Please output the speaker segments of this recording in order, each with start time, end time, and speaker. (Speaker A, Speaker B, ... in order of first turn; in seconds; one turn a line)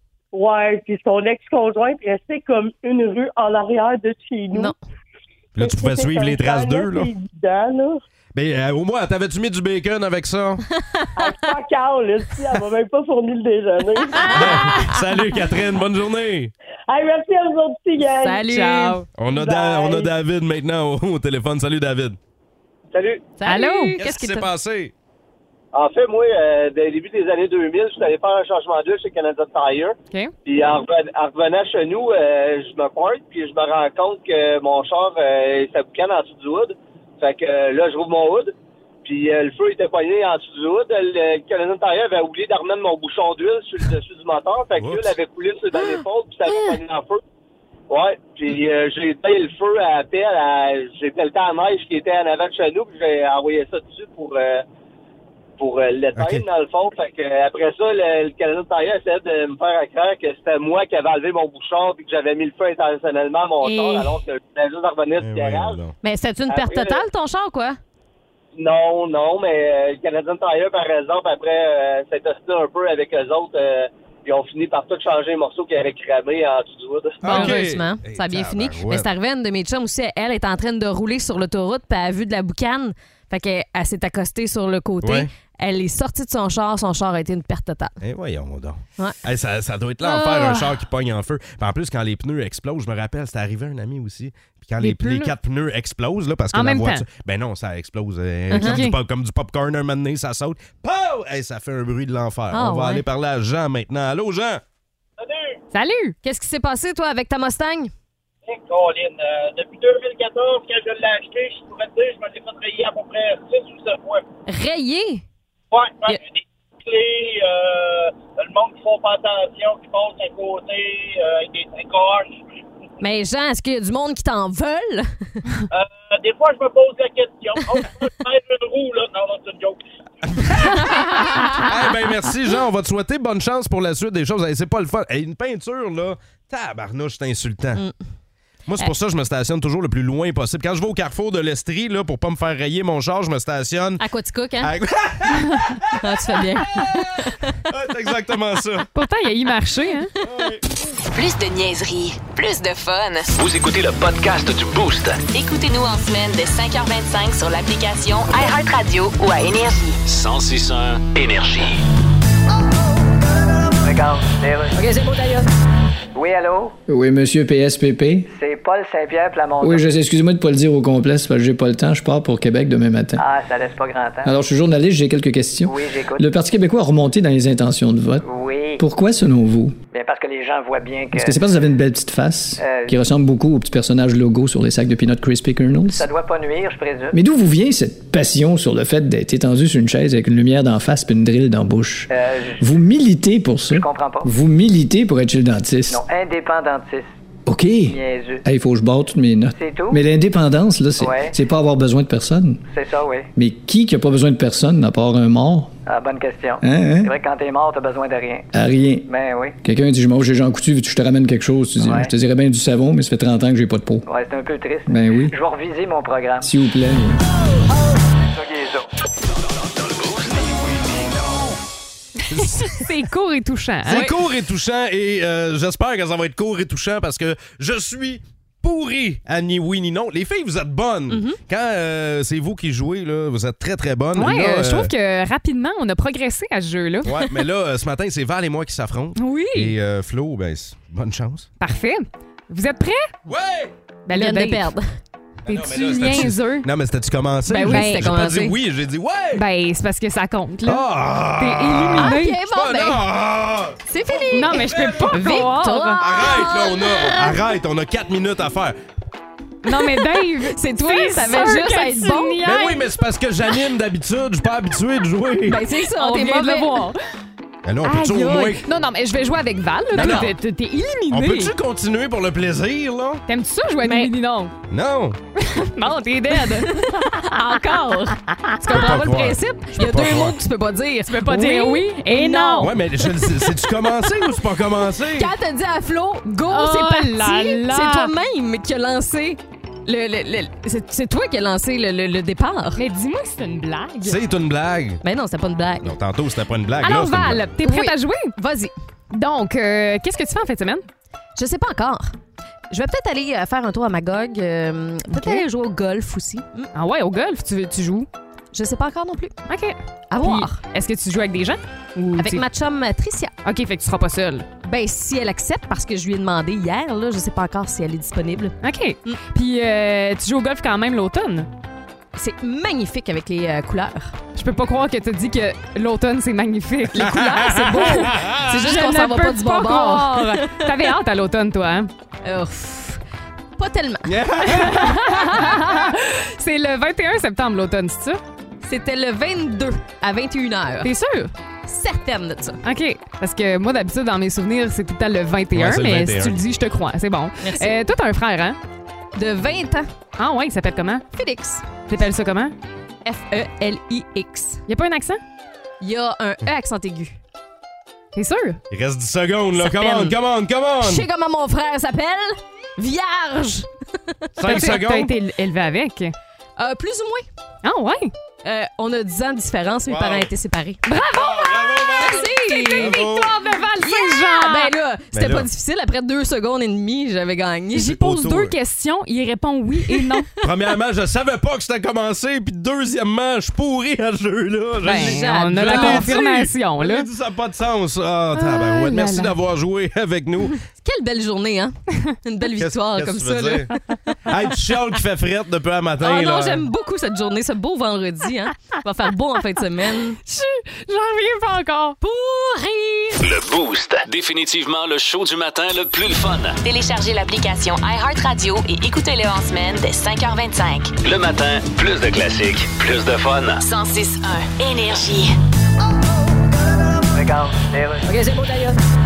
Speaker A: 0.3-4.7
Speaker B: 5.5-7.1
Speaker A: 5.6-8.0
Speaker B: 8.3-10.6
Speaker A: 11.2-14.8
Speaker C: 14.2-14.9
Speaker B: 14.3-16.5
Speaker A: 16.9-18.4
Speaker C: 18.2-19.0
Speaker D: 18.4-19.1
Speaker B: 19.2-22.2
Speaker A: 19.3-20.1
Speaker E: 22.9-23.3
Speaker C: 23.4-24.5
Speaker D: 23.4-24.0
Speaker B: 24.0-24.9
Speaker E: 25.7-38.5
Speaker E: 39.0-47.2
Speaker B: 44.8-45.1
Speaker C: 45.8-46.8
Speaker E: 47.9-54.6
Speaker E: 55.6-65.8
Speaker B: 56.1-56.5
Speaker C: 63.6-64.1
Speaker B: 65.2-66.0
Speaker C: 66.0-67.8
Speaker E: 66.5-67.0
Speaker E: 68.6-77.5
Speaker B: 77.2-79.1
Speaker C: 77.2-88.0
Speaker B: 85.0-85.3
Speaker B: 88.0-104.6
Speaker D: 90.1-90.5
Speaker C: 90.1-90.6
Speaker D: 94.8-95.3
Speaker D: 96.5-97.0
Speaker C: 98.5-98.8
Speaker D: 98.5-99.0
Speaker C: 102.5-103.0
Speaker F: 105.2-105.6
Speaker D: 105.7-106.1
Speaker C: 106.2-107.9
Speaker F: 108.5-114.2
Speaker C: 114.5-115.2
Speaker F: 115.7-122.5
Speaker C: 123.0-125.4
Speaker F: 125.7-129.8
Speaker B: 130.2-137.8
Speaker C: 130.7-131.9
Speaker B: 138.7-144.0
Speaker C: 144.0-144.7
Speaker B: 144.6-146.0
Speaker C: 145.9-147.6
Speaker B: 146.7-147.1
Speaker B: 147.7-148.9
Speaker D: 148.9-150.1
Speaker B: 150.2-150.6
Speaker G: 151.1-153.3
Speaker H: 153.3-155.2
Speaker G: 155.3-160.0
Speaker H: 160.1-161.8
Speaker I: 163.8-165.3
Speaker I: 166.1-166.7
Speaker J: 166.9-168.3
Speaker I: 168.3-169.8
Speaker J: 169.6-173.2
Speaker I: 173.2-174.3
Speaker J: 174.2-178.2
Speaker I: 175.7-176.2
Speaker I: 178.2-178.8
Speaker J: 178.8-179.8
Speaker I: 179.9-181.4
Speaker J: 181.1-186.1
Speaker I: 182.6-182.9
Speaker I: 185.9-187.2
Speaker J: 187.1-196.0
Speaker I: 192.1-192.6
Speaker I: 193.7-194.3
Speaker I: 195.9-197.1
Speaker J: 197.5-202.6
Speaker I: 197.9-198.4
Speaker I: 199.6-200.0
Speaker I: 201.0-201.3
Speaker I: 202.7-203.3
Speaker J: 203.3-205.7
Speaker I: 205.8-208.5
Speaker J: 206.6-207.1
Speaker J: 208.5-209.1
Speaker I: 209.1-209.6
Speaker J: 209.6-214.1
Speaker I: 211.8-212.1
Speaker I: 214.1-216.5
Speaker J: 214.9-215.3
Speaker J: 216.4-217.2
Speaker I: 218.4-218.8
Speaker H: 219.6-220.5
Speaker B: 222.3-222.9
Speaker D: 222.3-224.1
Speaker B: 223.8-234.9
Speaker C: 223.9-224.1
Speaker C: 231.1-231.4
Speaker D: 234.1-237.2
Speaker B: 237.0-241.5
Speaker D: 239.2-239.8
Speaker D: 241.6-243.1
Speaker B: 243.3-243.7
Speaker D: 244.1-244.7
Speaker C: 244.1-244.9
Speaker D: 245.5-246.7
Speaker B: 245.5-249.4
Speaker D: 247.5-248.3
Speaker C: 247.6-248.6
Speaker D: 249.3-252.4
Speaker B: 250.6-255.4
Speaker C: 252.0-253.1
Speaker C: 253.8-257.4
Speaker D: 254.3-256.1
Speaker B: 256.0-258.7
Speaker D: 259.6-262.9
Speaker C: 259.7-262.6
Speaker B: 262.4-265.6
Speaker C: 265.4-266.9
Speaker D: 265.8-267.0
Speaker B: 267.6-268.6
Speaker D: 267.8-271.5
Speaker B: 269.9-270.3
Speaker C: 269.9-270.3
Speaker B: 271.1-273.2
Speaker D: 273.3-274.5
Speaker C: 273.8-274.1
Speaker B: 274.7-275.2
Speaker D: 275.4-277.6
Speaker C: 276.3-284.3
Speaker D: 278.6-279.2
Speaker B: 278.7-280.4
Speaker D: 281.1-282.7
Speaker B: 282.6-285.3
Speaker C: 285.1-292.8
Speaker D: 286.4-288.1
Speaker D: 292.8-294.2
Speaker B: 294.0-295.0
Speaker C: 295.0-295.9
Speaker B: 295.8-297.5
Speaker D: 296.8-298.3
Speaker C: 297.6-298.7
Speaker D: 299.1-300.9
Speaker C: 301.4-302.1
Speaker C: 302.7-306.7
Speaker D: 305.1-305.4
Speaker D: 306.7-308.1
Speaker C: 308.5-309.4
Speaker D: 309.5-312.4
Speaker C: 310.1-310.6
Speaker C: 312.2-313.3
Speaker D: 313.4-314.5
Speaker C: 314.6-319.2
Speaker D: 318.6-321.5
Speaker C: 322.1-324.2
Speaker D: 324.3-331.9
Speaker C: 326.9-330.7
Speaker B: 328.1-328.4
Speaker C: 332.2-333.0
Speaker C: 333.6-334.8
Speaker B: 334.1-334.9
Speaker D: 334.6-338.2
Speaker C: 338.6-340.9
Speaker D: 340.8-341.3
Speaker C: 341.6-342.6
Speaker D: 342.6-348.6
Speaker B: 345.5-346.4
Speaker C: 347.4-347.8
Speaker C: 349.1-349.9
Speaker D: 350.2-351.0
Speaker C: 351.1-351.7
Speaker D: 351.8-352.6
Speaker C: 353.0-354.6
Speaker D: 354.7-355.2
Speaker C: 355.8-357.2
Speaker D: 358.1-358.6
Speaker B: 358.7-361.1
Speaker C: 359.5-360.2
Speaker C: 360.8-363.7
Speaker B: 364.4-365.1
Speaker D: 364.4-366.1
Speaker C: 364.4-364.7
Speaker C: 366.6-367.3
Speaker D: 367.6-368.1
Speaker C: 368.4-370.8
Speaker B: 369.9-370.3
Speaker D: 370.8-374.7
Speaker B: 371.1-373.4
Speaker C: 372.0-373.1
Speaker C: 373.8-378.0
Speaker B: 375.1-375.5
Speaker D: 377.8-380.3
Speaker B: 377.8-378.5
Speaker C: 379.9-380.2
Speaker B: 380.4-390.6
Speaker D: 384.8-387.1
Speaker C: 384.9-386.2
Speaker D: 388.3-389.4
Speaker C: 390.8-393.8
Speaker B: 392.6-393.7
Speaker B: 394.3-396.6
Speaker C: 396.0-400.2
Speaker D: 400.2-402.0
Speaker C: 402.0-403.2
Speaker H: 403.2-406.6
Speaker G: 406.6-410.9
Speaker H: 411.0-413.6
Speaker G: 413.6-415.3
Speaker I: 417.1-418.6